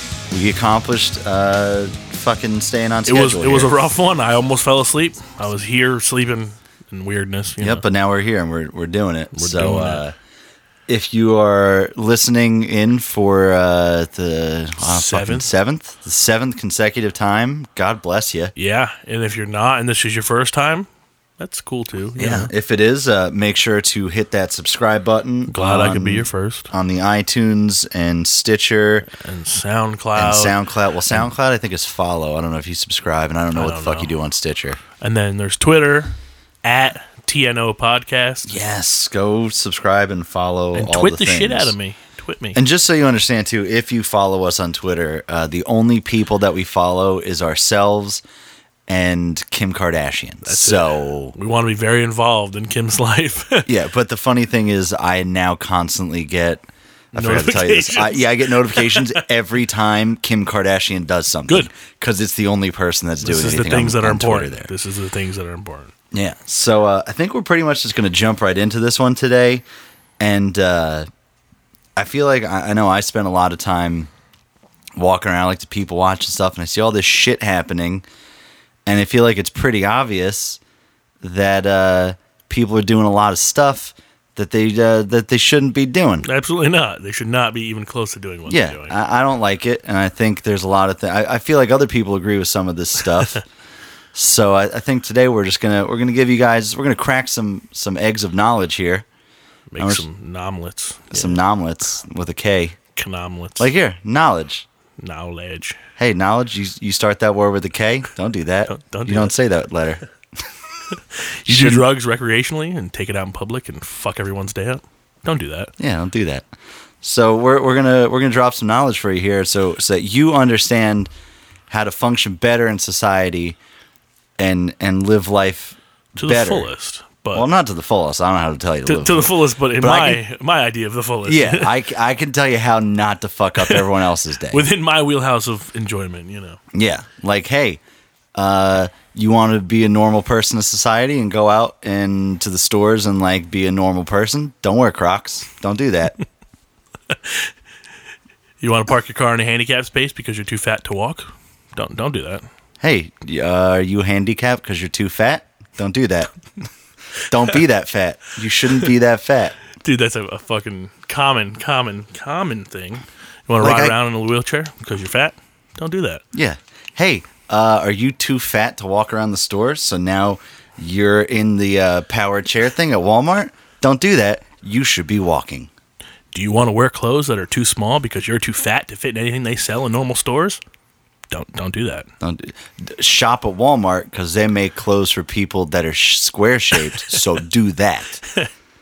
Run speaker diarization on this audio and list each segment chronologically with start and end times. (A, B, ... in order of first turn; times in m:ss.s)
0:00.3-0:03.7 A
0:03.1-0:07.8 B
0:07.6-0:10.1 A
0:09.3-0:10.0 B
0:10.9-0:18.5 A
0:14.8-0:15.5 B
0:18.6-0:20.9 B
0:21.4-0:22.5 B
0:22.2-0:29.1 A
0:25.5-0:26.7 B
0:29.1-0:30.6 B
0:30.1-0:34.8 A
0:33.5-0:34.1 B
0:35.0-0:38.6 B
0:38.4-0:41.7 A
0:40.7-0:42.6 B
0:42.5-0:48.2 A
0:48.9-0:51.3 A
0:50.4-0:53.7 B
0:53.7-1:04.7 A
0:57.1-0:59.2 B
1:03.2-1:05.9 B
1:06.1-1:09.6 A
1:10.2-1:11.0 A
1:12.0-1:14.1 A
1:15.0-1:18.0 A
1:18.8-1:20.6 A
1:21.2-1:26.3 A
1:26.2-1:29.0 B
1:28.5-1:33.4 A
1:34.1-1:39.0 A
1:39.7-1:41.4 B
1:39.8-1:40.0 A
1:41.1-1:42.8 A
1:43.0-1:43.7 B
1:43.6-1:44.6 A
1:45.0-1:45.8 B
1:46.0-1:50.0 A
1:48.7-1:49.3 B
1:50.9-1:55.7 B
1:51.4-1:51.8 A
1:55.8-1:56.4 A
1:57.0-2:01.1 A
2:01.7-2:03.6 A
2:04.4-2:06.7 A
2:06.2-2:07.5 B
2:07.3-2:10.2 A
2:08.8-2:11.7 B
2:11.2-2:14.6 A
2:13.6-2:13.8 B
2:14.5-2:16.6 B
2:16.7-2:17.8 A
2:18.4-2:26.2 A
2:28.6-2:32.4 B
2:32.8-2:36.3 A
2:37.3-2:39.6 A
2:39.8-2:46.2 B
2:43.6-2:44.0 A
2:46.3-2:55.7 A
2:56.3-3:00.6 B
3:01.3-3:02.1 B
3:02.2-3:08.2 A